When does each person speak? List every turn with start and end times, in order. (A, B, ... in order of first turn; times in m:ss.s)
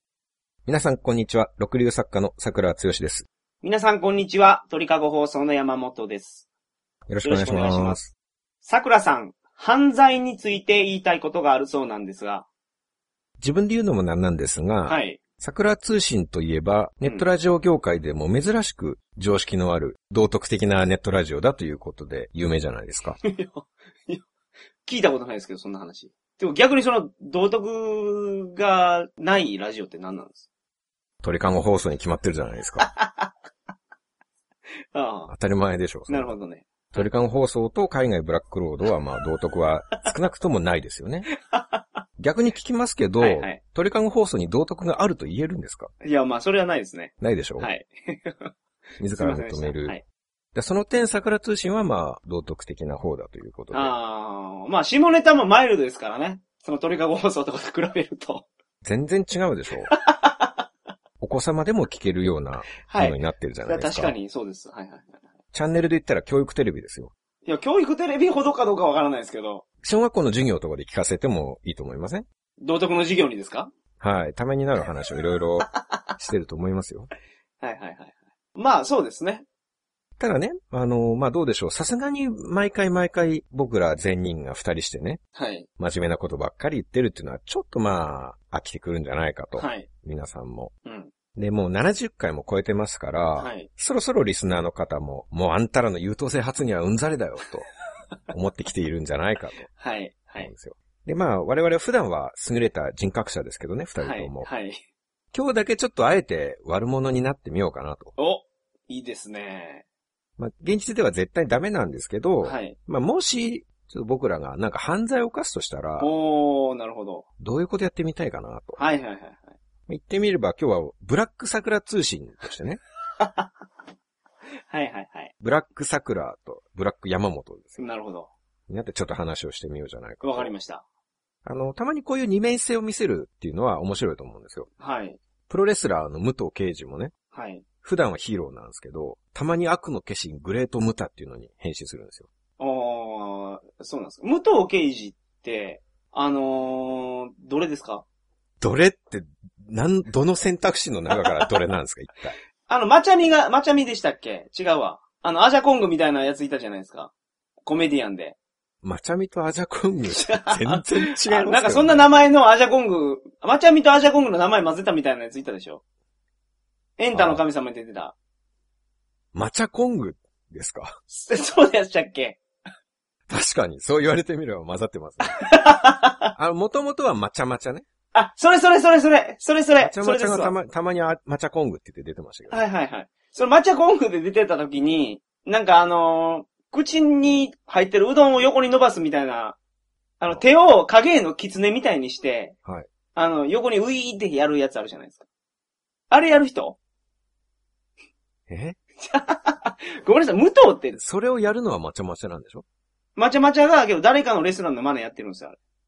0:00.7-0:03.3 A
0:03.6-0:06.5 B
0:07.1-0:08.1 A
0:07.2-0:08.0 B
0:08.6-0:12.5 B
0:13.4-0:23.2 A
0:14.9-0:15.2 B
0:23.2-0:24.2 B
0:24.8-0:30.5 B
0:31.2-0:32.9 A
0:32.9-0:33.3 B
0:34.9-0:35.3 B
0:35.3-0:36.3 A
0:36.1-0:37.1 B
0:36.9-0:41.3 A
0:41.5-0:41.8 B
0:42.2-0:45.9 A
0:43.2-0:43.6 B
0:46.0-0:48.5 B
0:47.2-0:47.7 A
0:49.0-0:50.0 A
0:49.1-0:50.0 B
0:50.6-0:53.9 A
0:53.7-0:58.5 B
0:58.8-0:59.9 A
0:59.9-1:00.7 B
1:01.2-1:04.2 A
1:02.8-1:05.2 B
1:05.5-1:07.1 A
1:07.4-1:09.6 B
1:09.8-1:12.3 A
1:12.6-1:13.7 B
1:14.0-1:17.1 A
1:17.6-1:19.4 B
1:20.2-1:25.2 A
1:25.4-1:25.7 B
1:25.8-1:30.7 A
1:29.6-1:29.9 B
1:30.8-1:31.1 B
1:31.4-1:37.7 A
1:33.4-1:33.7 B
1:38.3-1:39.7 A
1:39.8-1:40.5 B
1:40.4-1:44.5 A
1:44.0-1:44.8 B
1:45.3-1:48.2 A
1:48.2-1:49.8 B
1:50.4-1:56.1 A
1:52.4-1:52.8 B
1:56.0-1:57.2 B
1:57.4-1:58.8 A
1:58.8-1:59.6 B
1:59.9-2:02.8 A
2:03.2-2:03.5 B
2:04.7-2:05.3 B
2:05.4-2:07.8 A
2:07.8-2:08.3 B
2:08.7-2:10.5 A
2:10.2-2:10.8 B
2:11.4-2:14.7 A
2:14.8-2:15.2 B
2:15.5-2:17.1 A
2:17.3-2:17.6 B
2:17.8-2:22.3 A
2:22.6-2:28.0 B
2:28.6-2:32.4 A
2:32.7-2:37.1 B
2:37.7-2:38.4 B
2:38.8-2:42.1 A
2:40.1-2:45.8 B
2:47.0-2:48.1 B
2:47.1-2:47.4 A
2:49.3-2:50.9 A
2:51.1-2:52.4 B
2:53.3-2:55.5 A
2:55.2-2:56.3 B
2:56.4-2:57.8 A
2:58.1-3:00.6 B
2:59.8-3:02.6 A
3:02.5-3:09.6 B
3:10.2-3:12.6 B
3:13.2-3:15.2 B
3:16.1-3:16.8 B
3:18.5-3:18.8 A
3:19.0-3:21.0 B
3:20.9-3:22.6 A
3:23.2-3:25.6 B